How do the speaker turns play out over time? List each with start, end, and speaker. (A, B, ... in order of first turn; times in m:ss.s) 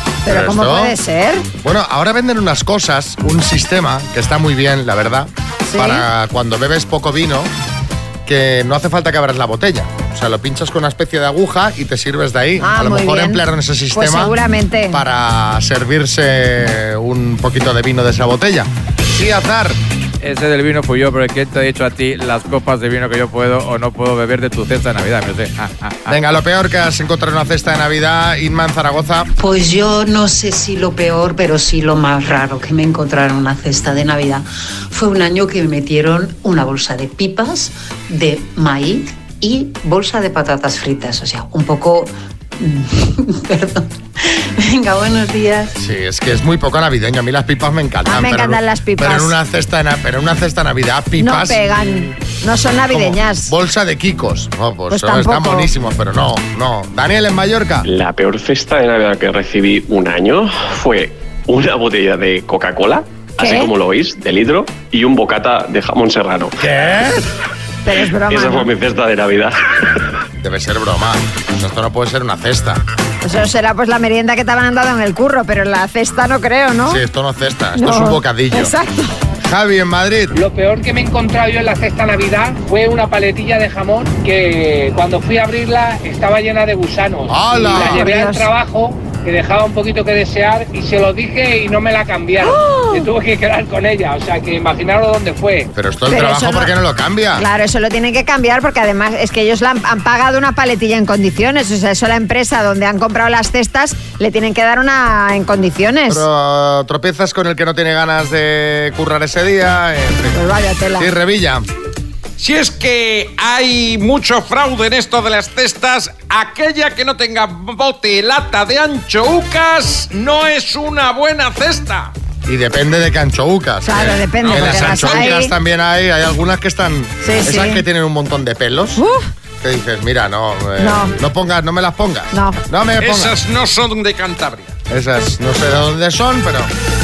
0:00.2-0:01.5 A
0:00.3-0:01.0 B
0:01.6-0:07.5 B
0:05.7-0:06.0 A
0:08.3-0:14.4 B
0:12.6-0:13.4 A
0:13.9-0:15.0 A
0:14.9-0:19.8 B
0:20.2-0:25.6 C
0:26.1-0:29.3 B
0:29.4-0:45.7 D
0:45.8-0:51.6 B
0:48.1-0:49.4 A
0:51.2-0:53.5 A
0:52.9-0:57.9 B
0:54.9-0:55.7 A
0:57.8-1:06.6 E
1:03.4-1:03.7 A
1:06.8-1:07.1 B
1:07.8-1:08.7 A
1:08.3-1:09.6 E
1:10.4-1:12.8 B
1:13.2-1:17.0 A
1:16.9-1:18.7 B
1:17.8-1:19.1 A
1:19.4-1:20.4 B
1:20.4-1:35.7 F
1:27.3-1:28.1 B
1:27.7-1:28.5 A
1:32.4-1:33.1 A
1:35.7-1:37.4 B
1:36.1-1:36.7 A
1:37.4-1:46.2 A
1:46.1-1:50.4 B
1:50.3-1:51.1 A
1:51.0-1:51.6 B
1:52.4-2:02.1 G
2:02.5-2:09.0 B
2:03.8-2:05.5 A
2:04.5-2:05.2 G
2:07.2-2:07.8 A
2:09.0-2:09.3 A
2:09.6-2:13.4 B
2:10.8-2:11.1 A
2:12.3-2:12.6 A
2:13.0-2:14.7 G
2:14.9-2:16.7 B